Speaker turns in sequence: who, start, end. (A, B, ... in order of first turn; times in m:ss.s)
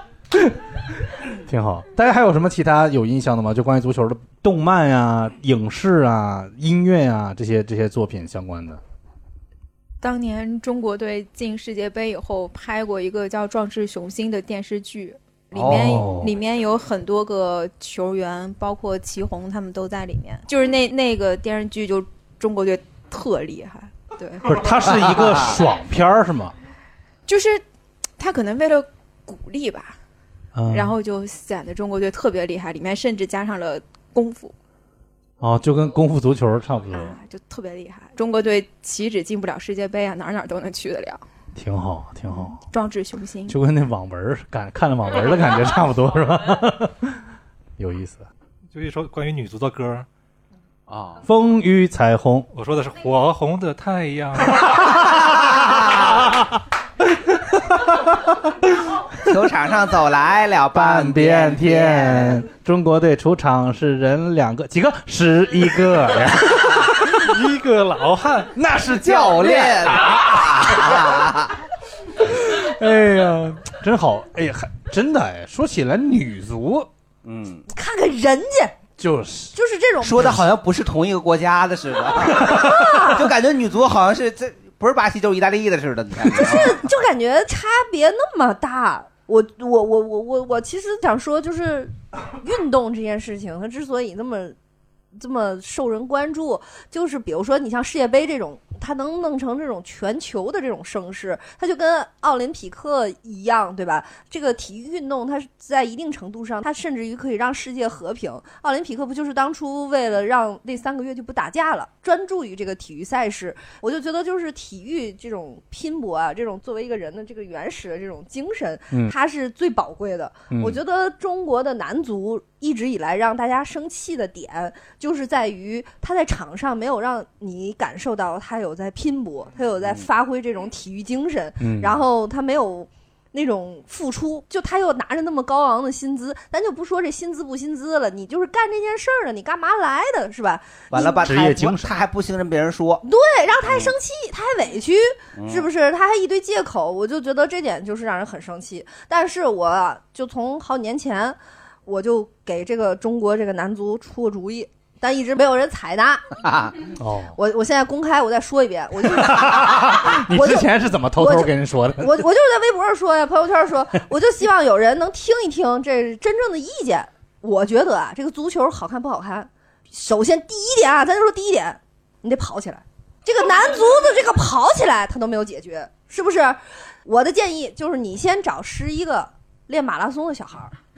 0:01.5-0:08.8 A
0:10.0-0:24.5 B
0:15.5-0:16.3 C
0:15.6-0:16.3 A
0:24.4-0:26.5 A
0:27.3-0:27.6 B
0:28.2-0:30.0 B
0:30.6-0:30.9 A
0:30.7-0:34.5 B
0:35.4-0:37.2 A
0:36.9-0:41.2 B
0:41.6-0:42.6 A
0:42.7-0:43.6 B
0:43.5-0:47.2 A
0:47.8-0:48.3 A
0:48.7-0:50.1 D
0:50.9-0:51.2 C
0:51.2-0:52.5 A
0:52.5-0:55.0 D
0:55.2-0:56.1 C
0:57.0-0:58.5 A
0:59.2-1:02.4 C
1:00.7-1:07.2 A
1:07.2-1:08.5 D
1:08.5-1:09.9 A
1:09.0-1:11.6 C
1:12.2-1:16.9 A
1:17.2-1:17.6 C
1:17.7-1:18.8 E
1:19.0-1:19.6 A
1:19.5-1:20.4 E
1:20.0-1:26.8 C
1:22.6-1:23.2 E
1:26.3-1:34.6 E
1:35.2-2:21.4 E
1:58.9-1:59.1 A
2:00.5-2:00.8 A
2:11.6-2:12.0 A
2:20.9-2:23.0 C
2:21.2-2:21.9 A
2:23.0-2:36.2 E
2:23.7-2:23.9 C
2:25.4-2:25.7 C
2:36.4-2:36.8 C
2:37.0-2:37.4 A
2:37.4-3:00.7 E
2:39.1-2:42.2 A